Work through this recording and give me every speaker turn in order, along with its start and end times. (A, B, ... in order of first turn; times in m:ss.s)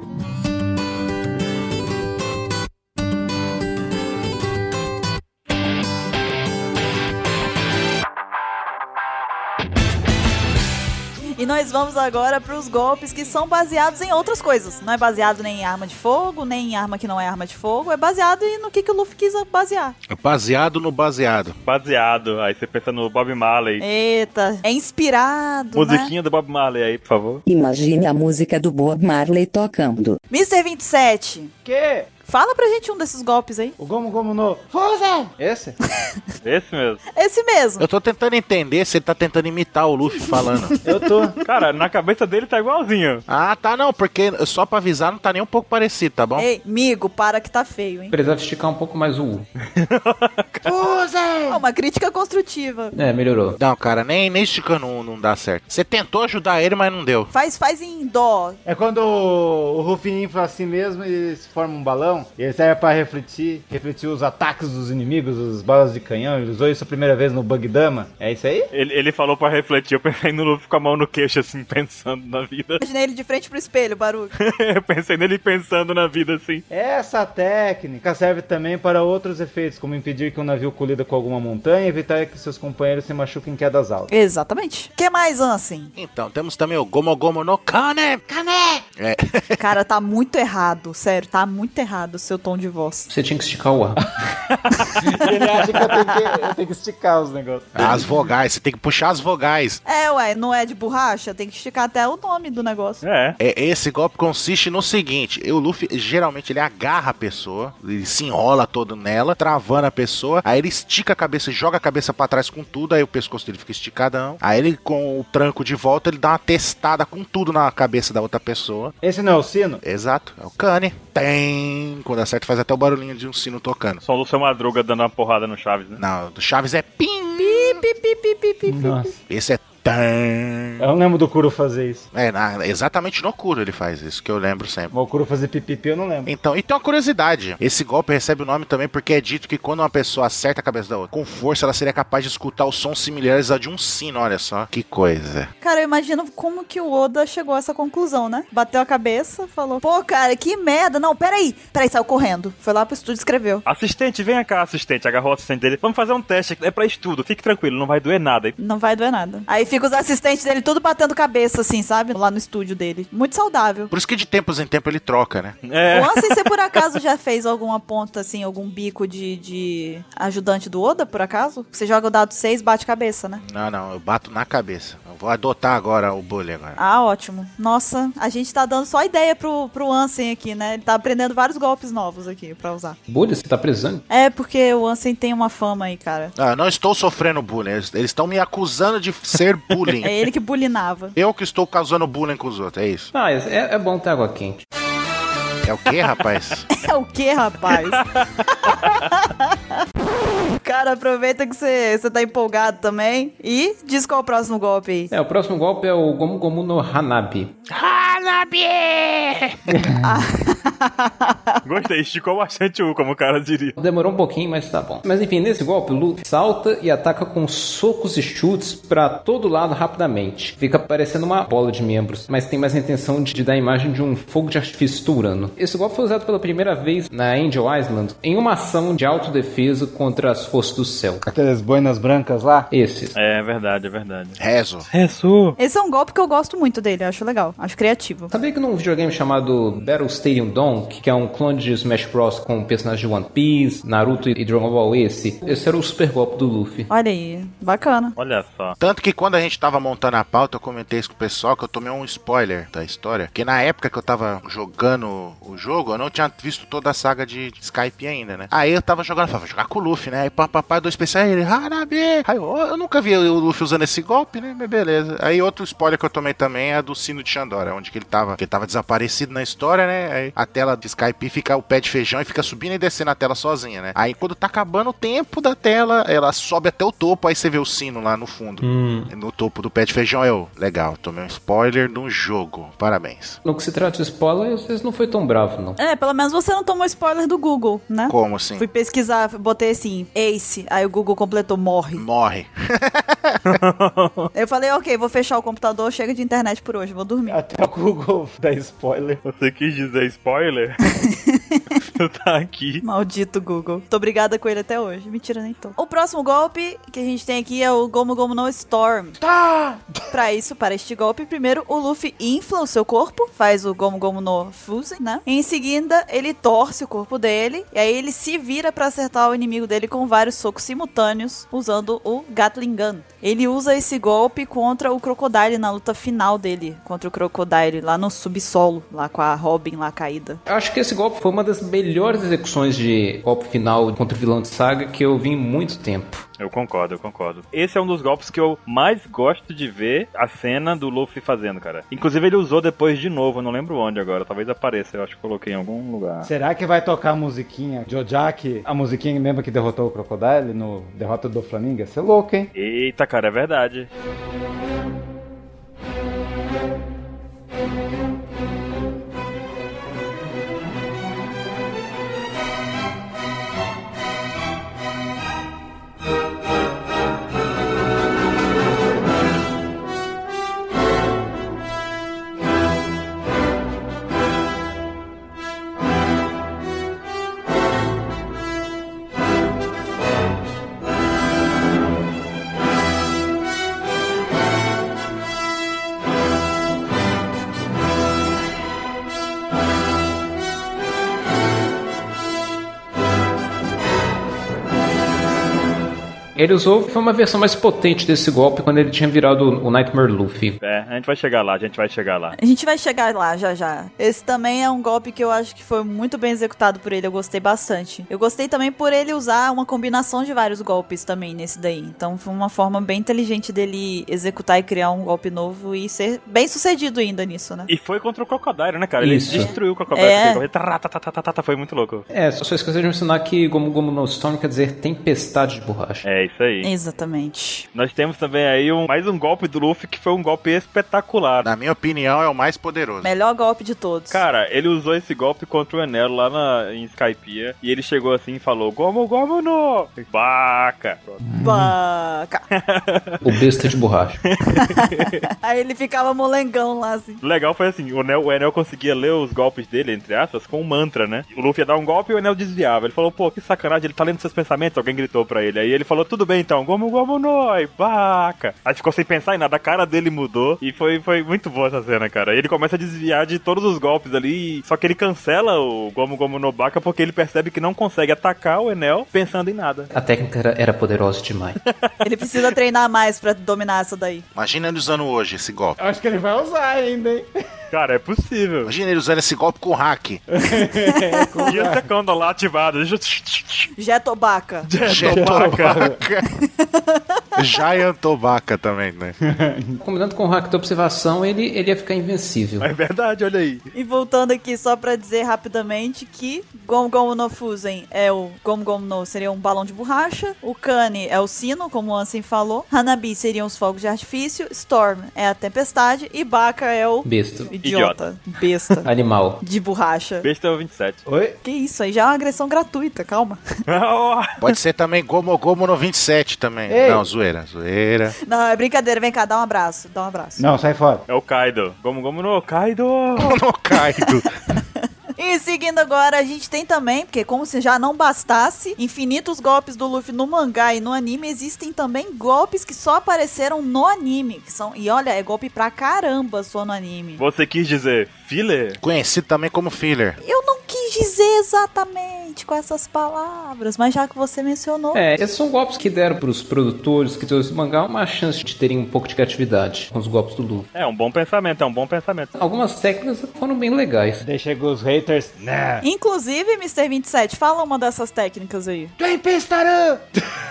0:11.3-0:20.0 A
0:20.1-0:21.6 B
0:21.6-0:23.8 C
0:23.8-0:26.1 A
0:25.7-0:27.4 C
0:27.4-0:30.2 D
0:30.3-0:31.5 A
0:31.6-0:32.1 E
0:32.2-0:33.7 A
0:33.8-0:35.8 E
0:36.4-0:37.0 C
0:37.1-0:37.8 A
0:37.8-0:40.7 B
0:40.3-0:40.8 A
0:40.8-0:41.4 E
0:41.4-0:43.2 C
0:43.3-0:46.4 B
0:46.4-0:48.1 A
0:48.1-0:49.4 F
0:49.6-0:50.8 C
0:50.6-0:51.6 E
0:51.5-0:52.9 A
0:52.9-0:53.6 F
0:53.6-0:57.3 B
0:57.3-0:58.6 A
0:58.6-1:08.7 E
1:08.7-1:12.8 C
1:12.8-1:14.3 A
1:14.3-1:16.6 C
1:16.7-1:24.1 E
1:24.1-1:25.9 A
1:26.0-1:28.2 B
1:28.3-1:28.8 E
1:29.0-1:29.7 B
1:29.6-1:33.1 A
1:33.1-1:34.0 F
1:34.9-1:38.1 E
1:35.2-1:35.9 C
1:37.8-1:39.8 B
1:39.8-1:43.0 A
1:43.0-1:43.4 C
1:43.4-1:58.9 B
1:59.0-1:59.8 E
1:59.8-2:04.0 B
2:04.0-2:06.0 C
2:06.0-2:07.8 B
2:07.4-2:09.1 A
2:08.7-2:09.2 E
2:09.3-2:10.9 B
2:10.8-2:12.1 E
2:12.1-2:14.9 B
2:14.9-2:16.3 E
2:16.2-2:25.5 B
2:25.6-2:33.6 A
2:33.6-2:38.6 C
2:38.6-2:43.9 A
2:43.9-2:45.6 B
2:45.6-2:46.5 C
2:45.9-2:53.4 A
2:53.4-2:56.8 B
2:56.8-3:03.0 A
3:03.1-3:04.0 F
3:04.1-3:06.3 A
3:06.4-3:10.1 B
3:10.0-3:11.2 A
3:11.2-3:13.1 B
3:13.1-3:14.6 F
3:15.6-3:16.7 B
3:16.7-3:19.6 A
3:17.7-3:19.1 C
3:20.6-3:25.1 A
3:25.1-3:27.5 F
3:27.7-3:29.8 B
3:29.7-3:30.1 E
3:30.0-3:31.6 A
3:31.6-3:33.7 C
3:33.8-3:51.2 F
3:51.2-3:52.7 E
3:52.7-3:53.1 F
3:53.1-3:54.4 C
3:54.4-3:54.9 B
3:54.9-3:55.6 C
3:55.6-3:58.3 A
3:58.3-4:06.9 F
4:06.9-4:08.1 A
4:08.2-4:08.8 C
4:08.8-4:43.4 B
4:38.6-4:39.1 F
4:43.4-4:45.8 F
4:45.8-4:52.0 A
4:48.1-4:48.6 B
4:52.0-4:53.6 B
4:53.4-4:54.3 C
4:54.3-4:57.4 A
4:57.3-4:59.2 E
4:59.2-5:00.8 C
5:00.9-5:01.6 A
5:01.9-5:02.8 C
5:02.8-5:09.2 A
5:09.2-5:10.0 E
5:10.1-5:30.4 A
5:30.5-5:36.2 F
5:36.4-5:46.3 C
5:46.2-5:52.5 E
5:52.5-5:53.9 C
6:36.4-6:40.6 F
6:40.6-6:42.4 C
6:42.4-6:57.7 A
6:57.7-7:02.0 C
6:59.0-6:59.5 F
6:59.3-7:00.4 A
7:02.1-7:06.0 F
7:06.0-7:06.7 C
7:06.6-7:07.7 A
7:07.7-7:11.5 C
7:11.4-7:13.1 B
7:13.0-7:14.2 A
7:14.1-7:21.2 C
7:21.2-7:21.7 E
7:21.4-7:22.4 A
7:22.5-7:23.4 C
7:23.2-7:24.2 F
7:24.2-7:25.3 C
7:24.6-7:27.2 A
7:27.2-7:49.9 C
7:49.9-7:51.6 F
7:51.6-7:52.4 C
7:52.0-7:54.2 A
7:54.3-7:55.8 B
7:55.8-7:57.3 E
7:57.7-7:58.7 C
7:58.6-8:00.2 B
8:00.3-8:01.8 E
8:01.4-8:03.7 C
8:03.8-8:04.7 A
8:04.6-8:05.9 C
8:04.8-8:06.3 B
8:05.0-8:06.0 E
8:06.6-8:07.2 A
8:07.4-8:09.2 B
8:09.3-8:09.8 E
8:09.8-8:12.7 F
8:12.6-8:13.7 C
8:13.7-8:28.9 A
8:27.0-8:27.5 F
8:27.6-8:28.0 C
8:28.8-8:29.4 F
8:29.4-8:30.3 A
8:30.2-8:31.0 C
8:31.0-8:31.4 E
8:31.4-8:33.4 A
8:33.7-8:34.4 C
8:34.4-8:38.1 B
8:36.7-8:37.0 E
8:38.2-8:40.4 A
8:40.4-8:41.0 E
8:41.1-8:43.4 C
8:43.2-8:44.3 B
8:45.2-8:57.2 A
8:57.2-8:58.8 C
8:58.8-9:00.2 B
9:00.2-9:05.0 A
9:04.9-9:10.7 F
9:10.7-9:12.3 C
9:12.4-9:14.2 F
9:14.2-9:15.8 E
9:15.8-9:18.9 A
9:19.0-9:20.1 E